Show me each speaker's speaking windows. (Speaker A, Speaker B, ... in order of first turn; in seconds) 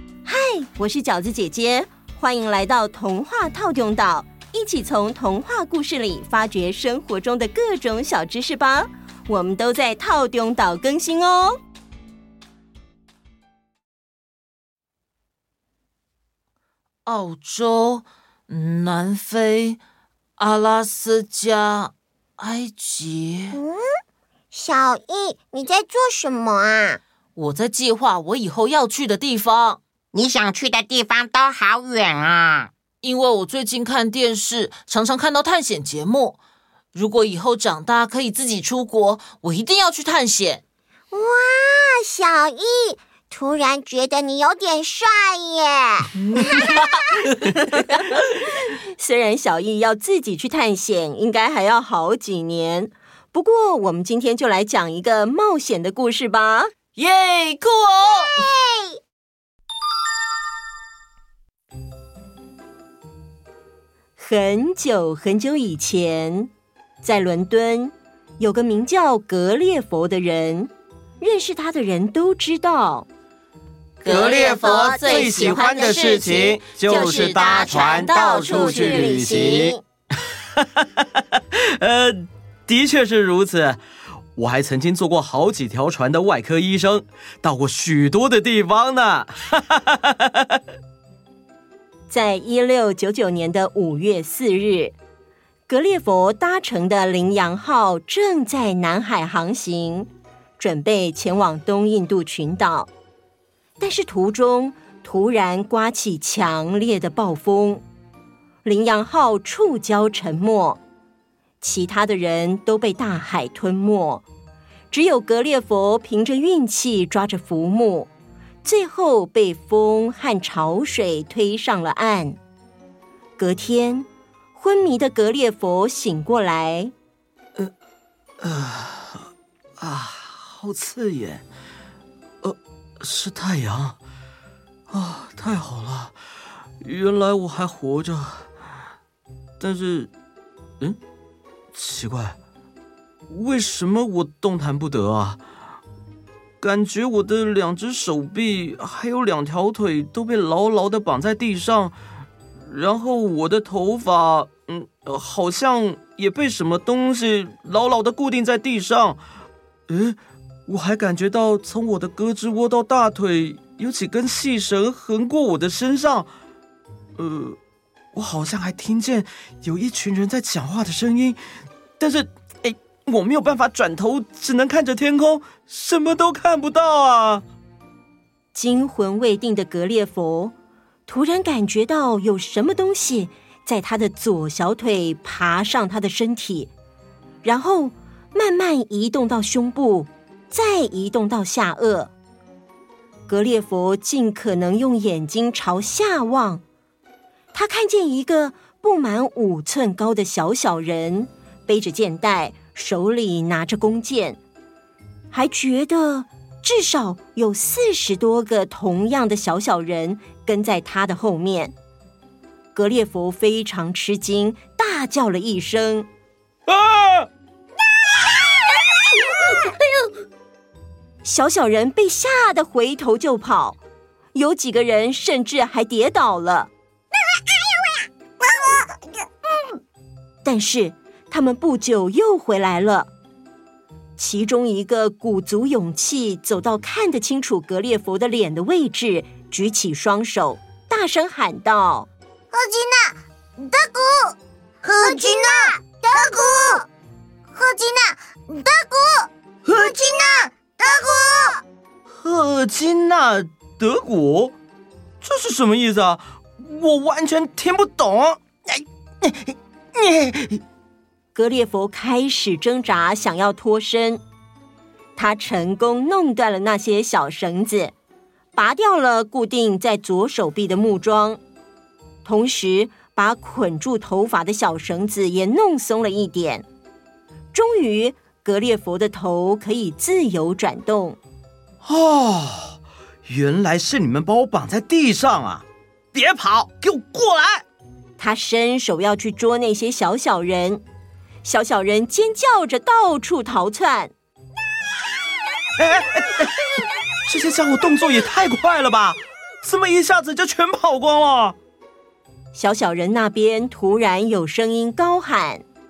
Speaker A: 0.2-11.6, 48.6-56.7, 64.2-66.5, 67.0-73.1, 78.1-79.5, 92.1-94.9, 95.7-102.9, 103.8-107.8, 108.6-110.8, 111.6-114.2, 114.9-118.1, 118.6-122.4, 123.4-126.9, 178.5-180.5, 181.1-186.7, 187.4-192.1, 193.3-196.6, 197.5-204.4, 205.3-211.7, 212.7-216.1, 221.2-223.8, 224.3-226.7, 230.4-233.1, 234.2-242.1, 261.3-264.2, 265.1-267.9, 268.5-271.4, 272.2-276.6, 277.5-281.2, 288.2-290.8, 291.4-294.1, 302.5-305.6
Speaker B: 17.1-19.8, 20.4-23.6, 27.4-29.8, 33.0-36.4, 36.9-40.6, 46.2-48.1, 57.0-58.5, 74.0-79.3
Speaker C: 23.5-23.8, 24.5-27.0, 41.1-46.8, 58.5-59.0, 74.7-76.0, 78.3-79.8, 242.5-246.8, 247.5-251.6
Speaker D: 30.1-32.7
Speaker E: 74.0-79.8, 80.3-83.8, 84.3-90.6, 128.4-129.3, 129.8-131.4, 132.4-134.0, 134.9-136.2, 136.8-138.5, 139.6-140.1, 141.7-142.4, 143.3-145.4, 146.6-151.9, 152.5-159.2, 159.9-166.3, 167.2-167.6, 168.1-171.4, 172.0-177.4, 216.7-217.3, 252.1-254.5, 255.2-260.6, 281.8-287.6, 295.8-296.5, 297.3-301.6